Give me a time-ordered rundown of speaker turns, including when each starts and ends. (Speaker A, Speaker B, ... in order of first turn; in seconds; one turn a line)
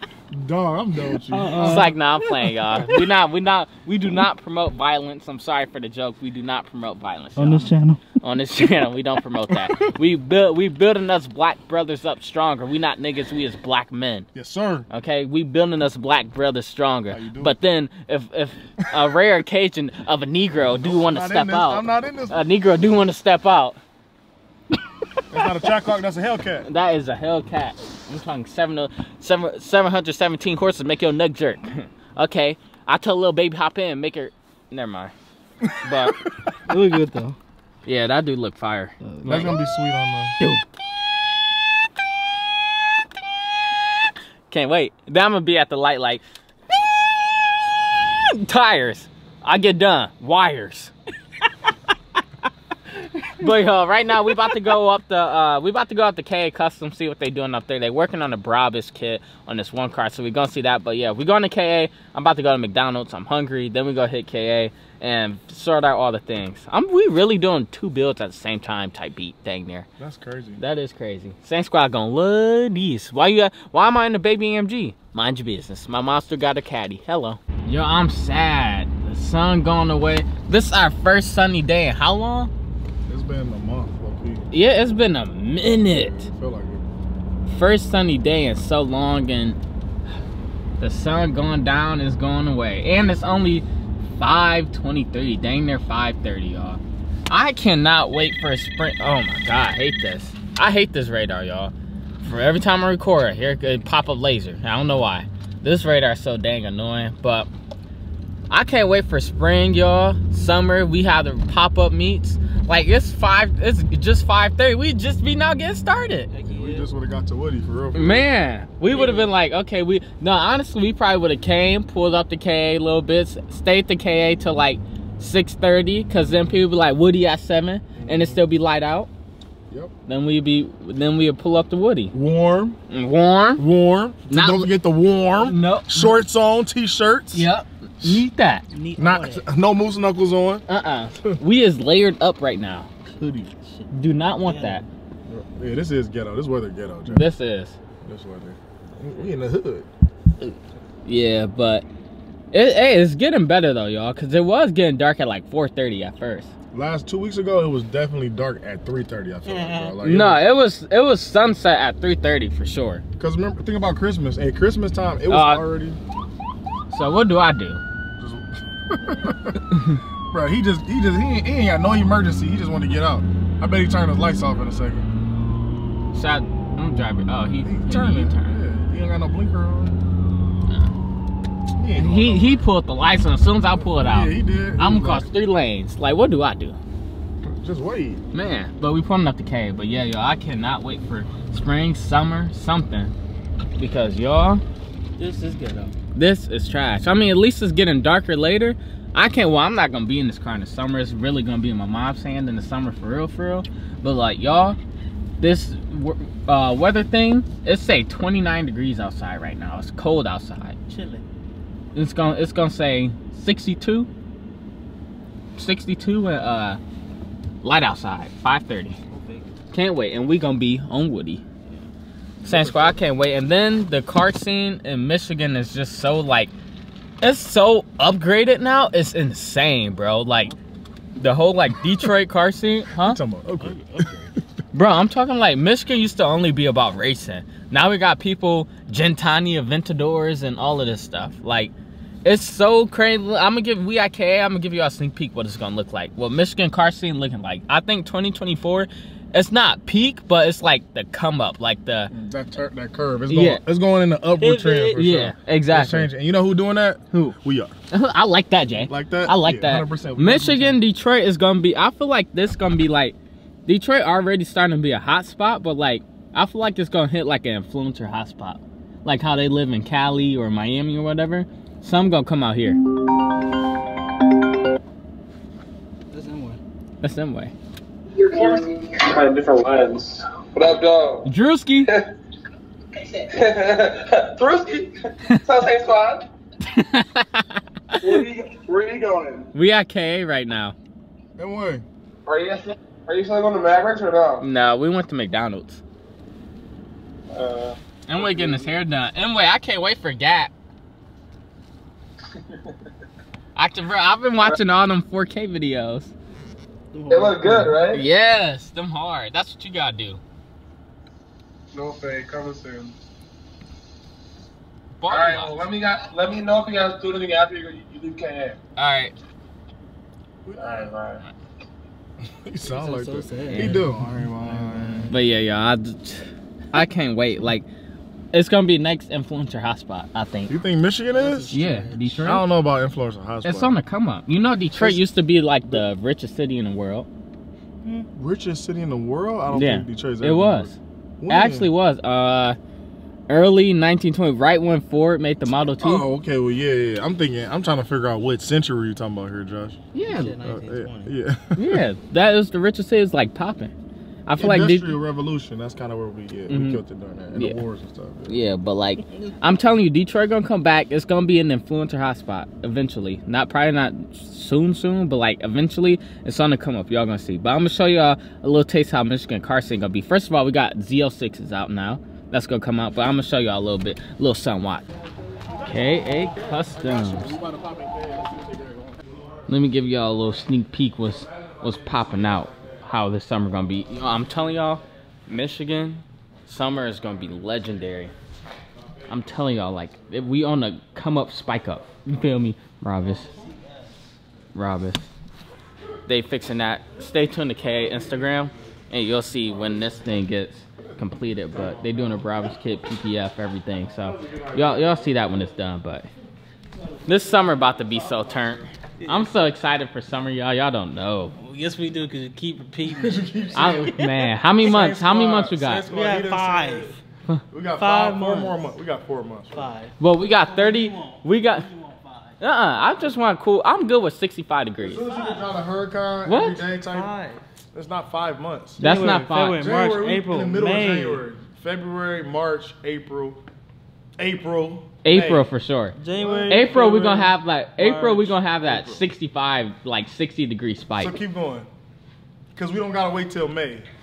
Speaker A: 0.3-1.9
Speaker B: 1.3-1.9
Speaker C: 1.6-14.3
Speaker B: 7.4-8.0
Speaker A: 14.3-14.9
Speaker C: 14.9-23.8
Speaker A: 17.1-17.6
Speaker A: 20.8-22.4
Speaker A: 25.3-26.7
Speaker C: 26.6-35.1
Speaker A: 35.6-36.1
Speaker C: 35.8-36.2
Speaker B: 36.7-37.4
Speaker C: 37.9-39.5
Speaker A: 39.2-40.4
Speaker C: 44.5-46.3
Speaker C: 48.3-50.9
Speaker C: 53.4-69.9
Speaker A: 70.0-70.6
Speaker C: 70.6-82.5
Speaker A: 83.1-84.5
Speaker C: 84.5-86.3
Speaker A: 85.8-86.8
Speaker C: 87.5-89.6
Speaker C: 90.8-93.7
Speaker C: 94.2-107.5
Speaker C: 108.5-116.3
Speaker B: 116.3-116.9
Speaker A: 116.5-118.3
Speaker C: 117.9-129.1
Speaker B: 118.9-119.3
Speaker A: 128.0-128.4
Speaker C: 130.1-132.1
Speaker A: 132.1-132.8
Speaker C: 132.9-133.7
Speaker A: 133.6-137.5
Speaker C: 134.3-134.7
Speaker C: 135.4-136.1
Speaker C: 137.3-138.7
Speaker A: 138.0-138.3
Speaker B: 138.7-139.4
Speaker A: 139.0-140.7
Speaker C: 140.7-142.9
Speaker A: 143.1-143.5
Speaker C: 143.9-144.9
Speaker B: 144.4-144.9
Speaker A: 145.3-147.3
Speaker C: 147.1-147.8
Speaker A: 148.0-149.9
Speaker C: 150.4-151.8
Speaker C: 152.5-156.5
Speaker A: 156.7-160.4
Speaker B: 159.4-159.9
Speaker C: 160.0-163.0
Speaker A: 163.2-166.0
Speaker C: 165.3-165.7
Speaker C: 166.9-167.8
Speaker A: 168.2-169.8
Speaker C: 169.8-170.0
Speaker A: 170.3-175.1
Speaker C: 176.1-178.6
Speaker A: 177.6-180.0
Speaker A: 181.8-182.7
Speaker C: 182.0-186.8
Speaker A: 183.7-185.3
Speaker A: 187.4-188.2
Speaker C: 188.3-193.1
Speaker C: 193.8-194.6
Speaker B: 195.2-195.9
Speaker C: 196.2-204.8
Speaker C: 205.4-210.8
Speaker B: 210.9-211.2
Speaker C: 211.9-214.1
Speaker C: 215.6-216.8
Speaker C: 217.6-219.0
Speaker B: 219.1-219.5
Speaker C: 219.7-221.4
Speaker A: 222.4-223.0
Speaker C: 222.4-226.5
Speaker C: 227.2-230.5
Speaker C: 231.2-233.2
Speaker A: 233.0-234.1
Speaker B: 233.6-234.3
Speaker C: 234.7-241.7
Speaker C: 242.2-252.1
Speaker A: 252.1-257.8
Speaker C: 253.3-253.6
Speaker B: 254.4-255.1
Speaker C: 255.0-256.1
Speaker C: 257.9-263.1
Speaker A: 258.8-260.8
Speaker C: 263.7-272.8
Speaker B: 276.1-276.6
Speaker C: 277.0-277.5
Speaker D: 278.1-281.3
Speaker C: 281.3-281.9
Speaker D: 283.0-286.2
Speaker C: 286.7-288.2
Speaker D: 288.0-289.5
Speaker C: 289.5-290.8
Speaker A: 291.4-291.9
Speaker D: 292.3-294.4
Speaker C: 294.4-295.8
Speaker D: 297.3-298.6
Speaker C: 298.1-300.5
Speaker C: 303.6-306.1
Speaker B: 306.9-307.8
Speaker D: 307.1-308.1
Speaker C: 307.9-310.2
Speaker D: 311.7-312.9
Speaker C: 315.0-315.7
Speaker D: 315.1-318.6
Speaker C: 318.8-319.1
Speaker A: 320.4-320.9
Speaker D: 320.6-321.2
Speaker A: 322.4-325.1
Speaker B: 322.6-325.2
Speaker C: 325.1-327.7
Speaker C: 328.3-330.6
Speaker A: 330.5-331.5
Speaker B: 331.1-332.4
Speaker C: 331.5-332.4
Speaker A: 332.2-333.8
Speaker C: 333.4-337.1
Speaker A: 334.7-335.0
Speaker A: 338.1-341.7
Speaker C: 339.5-340.8
Speaker C: 341.3-342.6
Speaker C: 343.3-346.1
Speaker A: 345.8-349.8
Speaker C: 349.9-350.4
Speaker B: 350.0-351.1
Speaker A: 350.4-351.8
Speaker C: 351.6-353.7
Speaker C: 354.3-354.9
Speaker A: 354.4-358.4
Speaker C: 356.5-356.8
Speaker C: 357.3-357.6
Speaker C: 358.3-374.9
Speaker C: 375.6-377.4
Speaker A: 376.7-379.1
Speaker C: 379.5-388.1
Speaker A: 381.1-382.9
Speaker A: 388.8-389.2
Speaker C: 389.1-393.3
Speaker B: 393.0-394.1
Speaker C: 394.6-395.1
Speaker C: 396.1-406.1
Speaker A: 401.5-402.1
Speaker A: 404.0-405.4
Speaker C: 407.1-411.3
Speaker B: 409.0-409.3
Speaker B: 411.4-414.3
Speaker A: 412.9-414.0
Speaker C: 413.6-415.8
Speaker A: 414.6-416.9
Speaker B: 415.9-417.0
Speaker A: 417.5-419.6
Speaker B: 417.8-418.6
Speaker B: 419.5-422.4
Speaker C: 420.0-421.7
Speaker C: 422.4-425.1
Speaker A: 424.8-427.1
Speaker B: 425.1-425.4
Speaker C: 426.3-426.6
Speaker B: 426.9-427.4
Speaker A: 427.7-433.4
Speaker B: 428.8-431.2
Speaker C: 428.8-429.7
Speaker A: 434.2-435.5
Speaker C: 435.0-435.9
Speaker B: 436.0-439.0
Speaker A: 436.1-437.3
Speaker C: 436.5-441.2
Speaker A: 441.0-441.7
Speaker A: 442.6-443.9